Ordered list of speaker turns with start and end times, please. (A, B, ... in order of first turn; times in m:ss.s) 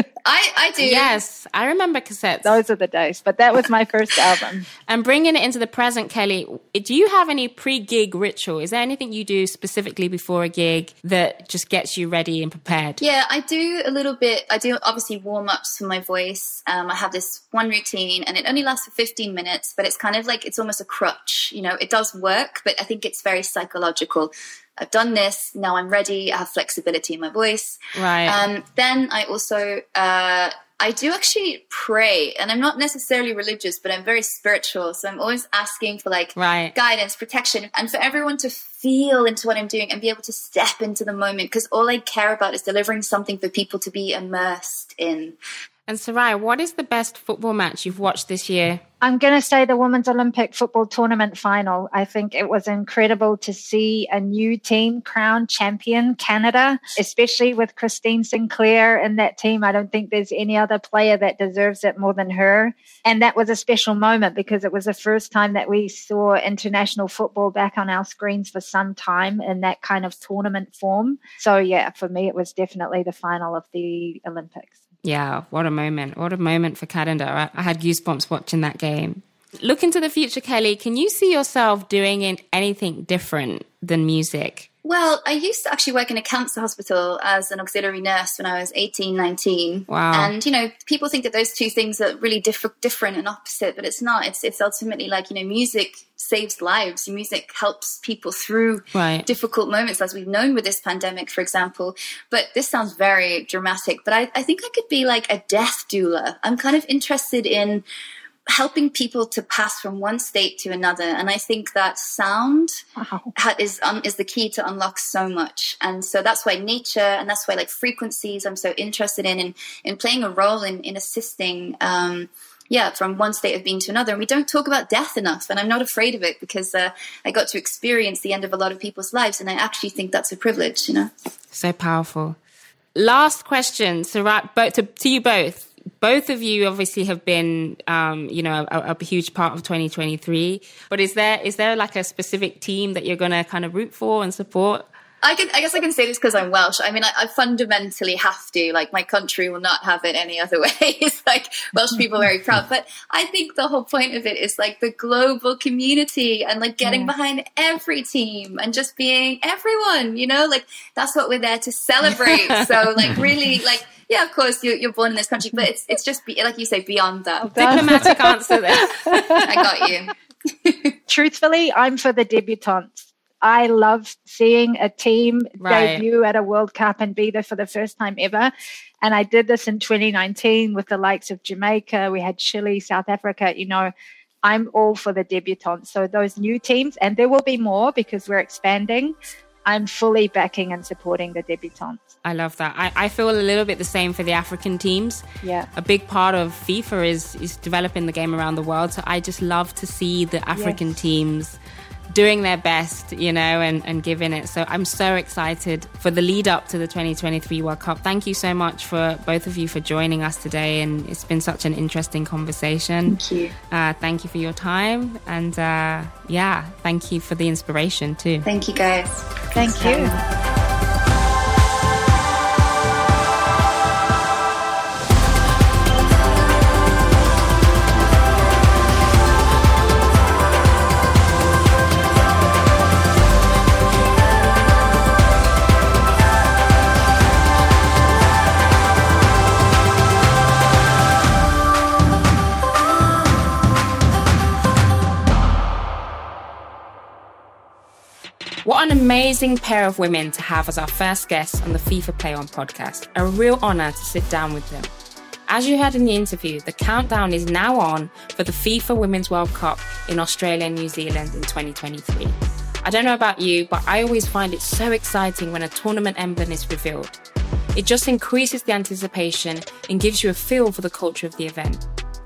0:00.2-0:01.2 A
0:00.8-0:02.6 B
0:02.4-0:04.7 C
0:04.9-0:13.0 B
0:13.0-0:45.4 A
0:28.0-0:28.4 B
0:36.4-0:36.7 B
0:45.9-0:48.8 B
0:49.0-1:14.7 C
1:15.0-1:24.7 B
1:24.8-1:47.8 A
1:29.9-1:30.3 B
1:38.9-1:39.3 B
1:48.5-1:52.8 A
1:53.0-1:53.3 C
1:53.4-2:11.1 A
2:11.5-2:12.4 B
2:13.0-2:24.9 B
2:25.2-2:48.1 A
2:36.8-2:37.1 C
2:47.4-2:49.7 C
2:47.6-2:49.4 B
2:49.4-2:50.9 A
2:51.1-3:03.9 C
2:55.6-2:56.0 B
3:04.4-3:12.1 C
3:12.2-3:15.2 B
3:15.4-3:15.7 C
3:15.8-3:21.6 B
3:20.5-3:20.8 C
3:22.1-3:33.2 B
3:33.1-3:33.5 A
3:33.7-3:38.5 B
3:38.4-3:40.2 A
3:39.6-3:40.1 C
4:08.6-4:14.9 B
4:15.5-4:27.2 B
4:27.7-4:31.8 B